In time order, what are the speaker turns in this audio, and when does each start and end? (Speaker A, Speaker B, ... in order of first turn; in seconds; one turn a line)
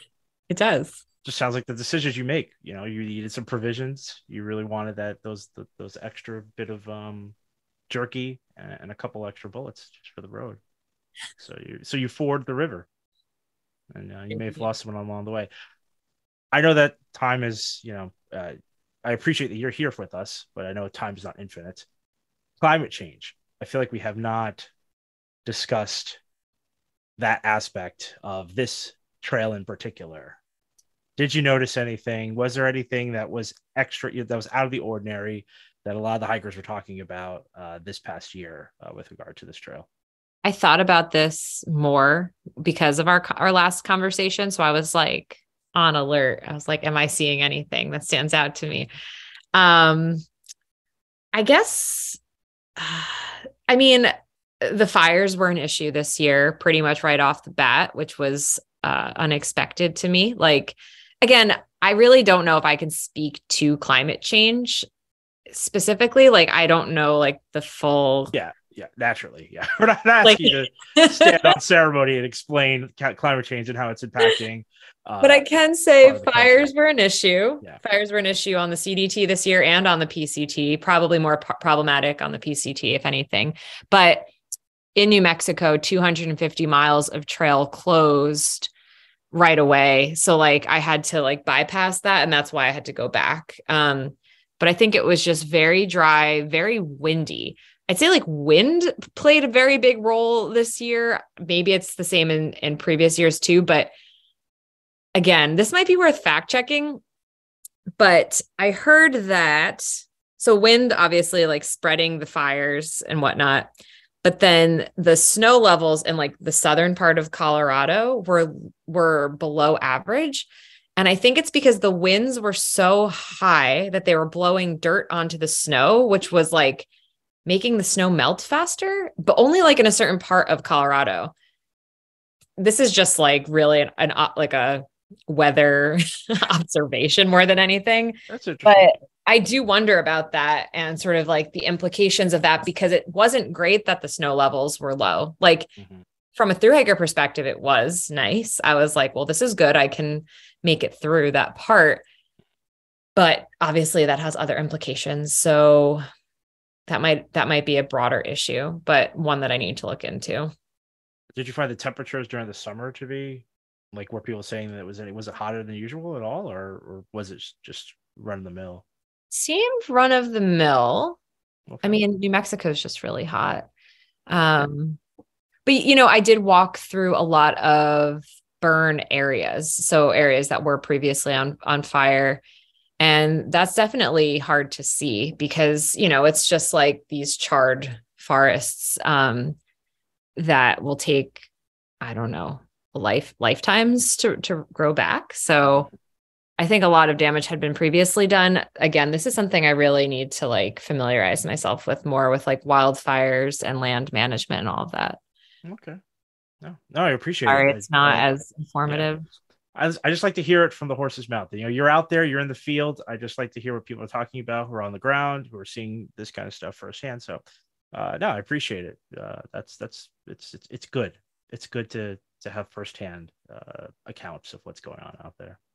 Speaker A: 0.5-1.0
Speaker B: 1.2-7.3
Speaker B: 7.9-10.6
Speaker B: 11.4-12.8
Speaker B: 13.9-15.5
Speaker B: 16.5-21.9
Speaker B: 22.6-24.7
Speaker B: 25.4-26.2
Speaker B: 27.2-30.4
Speaker B: 31.2-39.9
Speaker A: 40.4-48.9
Speaker A: 49.5-50.2
Speaker A: 51.3-52.2
Speaker A: 52.8-64.8
Speaker A: 65.5-68.3
Speaker B: 68.3-75.5
Speaker A: 70.2-71.5
Speaker A: 75.2-84.3
Speaker B: 76.0-76.7
Speaker A: 85.0-88.7
Speaker A: 89.3-103.9
Speaker A: 105.2-107.0
Speaker A: 108.0-113.7
Speaker A: 114.2-126.9
Speaker A: 127.5-131.3
Speaker A: 132.6-145.7
Speaker B: 138.3-139.0
Speaker B: 145.8-146.0
Speaker A: 146.3-152.0
Speaker A: 153.2-156.0
Speaker A: 156.9-160.5
Speaker B: 161.3-168.8
Speaker A: 169.3-171.2
Speaker B: 171.7-172.0
Speaker A: 171.8-173.7
Speaker A: 174.3-175.0
Speaker A: 175.7-182.4
Speaker A: 183.0-189.6
Speaker A: 190.3-191.4
Speaker A: 192.0-195.9
Speaker A: 196.6-205.2
Speaker B: 205.6-206.0
Speaker B: 206.6-208.3
Speaker A: 207.4-209.2
Speaker B: 208.9-209.1
Speaker B: 209.7-217.4
Speaker B: 217.9-225.6